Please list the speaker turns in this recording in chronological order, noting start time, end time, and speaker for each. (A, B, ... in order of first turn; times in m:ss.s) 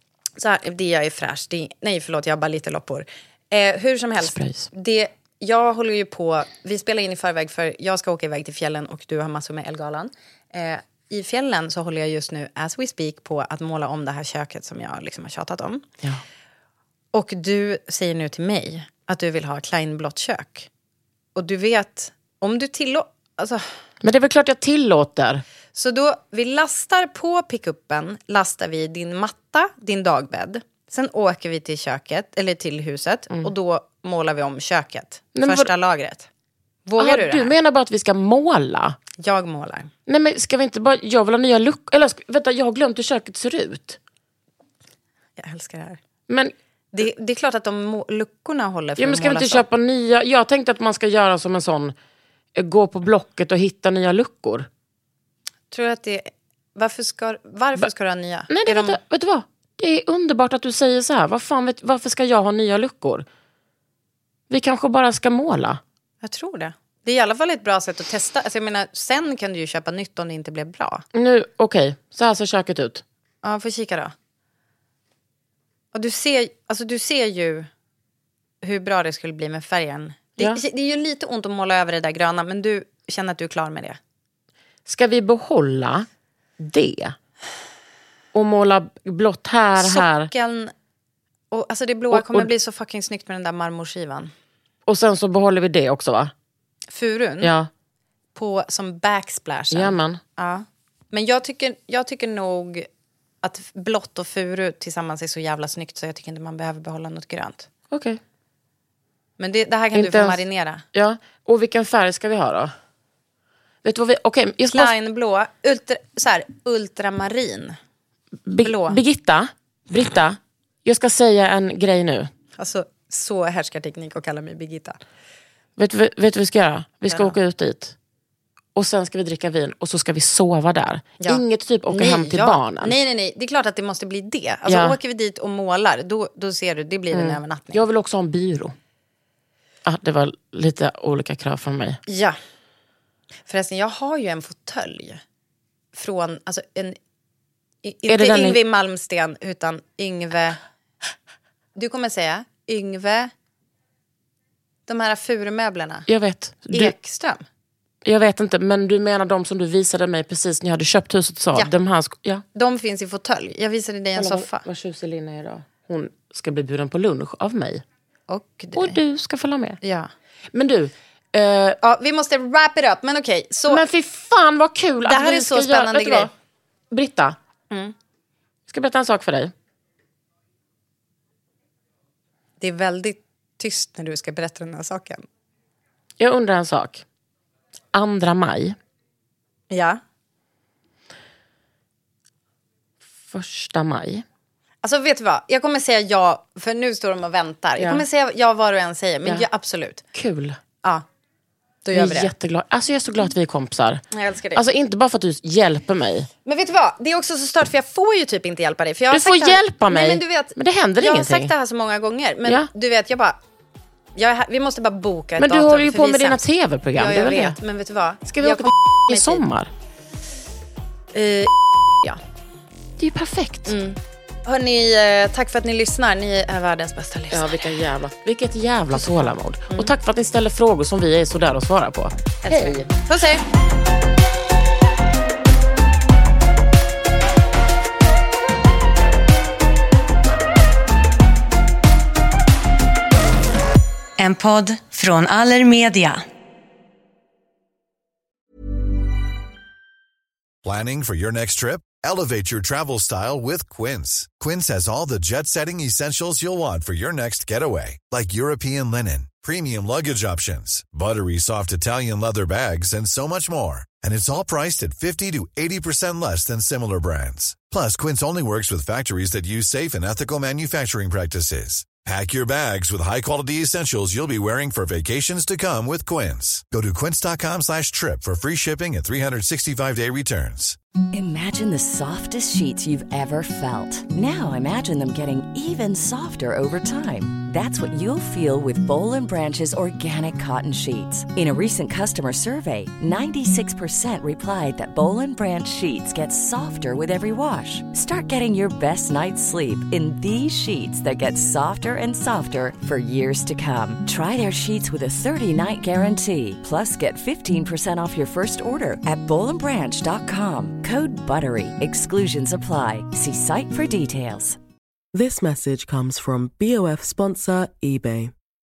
0:00.4-0:15.8 A
0:04.2-0:04.7 B
0:17.1-0:20.7 A
0:21.3-0:23.6 A
0:24.0-0:25.4 B
0:25.7-0:36.3 A
0:35.3-0:35.7 B
0:36.9-0:37.5 A
0:37.0-0:39.0 B
0:39.2-0:39.9 A
0:40.1-0:44.0 B
0:45.4-0:46.0 A
0:46.3-0:46.5 B
0:46.9-0:49.6 A
0:49.0-0:51.9 B
0:52.5-0:54.7 B
0:55.7-0:59.0 A
0:58.5-1:03.2 B
1:04.5-1:05.8 B
1:06.2-1:11.0 A
1:11.1-1:13.0 B
1:13.4-1:14.1 A
1:15.9-1:17.7 A
1:18.6-1:24.0 A
1:24.9-1:26.1 B
1:26.6-1:27.1 B
1:28.3-1:30.3 B
1:29.8-1:30.7 A
1:31.5-1:34.3 A
1:32.1-1:32.5 B
1:34.9-1:36.3 B
1:36.9-1:37.5 A
1:37.4-1:37.7 B
1:38.3-1:42.9 A
1:39.7-1:40.2 B
1:43.4-1:47.7 A
1:47.9-1:48.2 B
1:49.4-1:50.8 A
1:49.9-1:52.7 B
1:53.8-1:54.9 B
1:54.7-1:57.8 A
1:58.4-2:02.3 B
1:58.6-1:59.0 A
2:02.6-2:05.0 A
2:05.8-2:08.0 B
2:07.1-2:07.3 A
2:08.7-2:12.9 B
2:11.2-2:17.8 A
2:14.7-2:15.0 B
2:17.1-2:18.7 B
2:19.8-2:22.0 B
2:22.1-2:22.4 A
2:23.4-2:25.2 A
2:25.9-2:27.0 A
2:27.8-2:30.6 A
2:28.1-2:28.6 B
2:31.7-2:33.3 A
2:34.9-2:36.1 A
2:36.1-2:36.9 B
2:36.7-2:37.4 A
2:38.0-2:42.4 B
2:42.5-2:44.6 A
2:44.2-2:47.8 B
2:48.3-2:49.0 A
2:48.7-2:49.8 B
2:49.8-2:50.1 A
2:50.5-2:51.8 B
2:51.8-2:53.8 A
2:53.7-2:56.3 B
2:55.0-2:56.3 A
2:56.9-2:57.4 B
2:58.7-2:59.5 B
3:02.6-3:05.2 A
3:06.2-3:07.0 B
3:07.9-3:08.8 B
3:09.7-3:10.0 A
3:13.2-3:14.2 B
3:14.8-3:20.0 A
3:17.8-3:18.0 B
3:20.1-3:20.6 B
3:21.8-3:22.3 A
3:21.9-3:26.3 B
3:24.1-3:24.6 A
3:26.4-3:33.4 A
3:29.1-3:31.5 B
3:34.2-3:36.4 A
3:35.4-3:37.6 B
3:36.9-3:39.4 A
3:38.2-3:39.7 B
3:41.1-3:42.2 A
3:43.0-3:43.8 B
3:43.7-3:47.5 A
3:47.3-3:52.9 B
3:48.9-3:49.9 A
3:52.4-3:53.4 A
4:04.2-4:06.2 A
4:10.6-4:40.8 C
4:41.1-5:14.6 D
5:15.1-5:18.3 E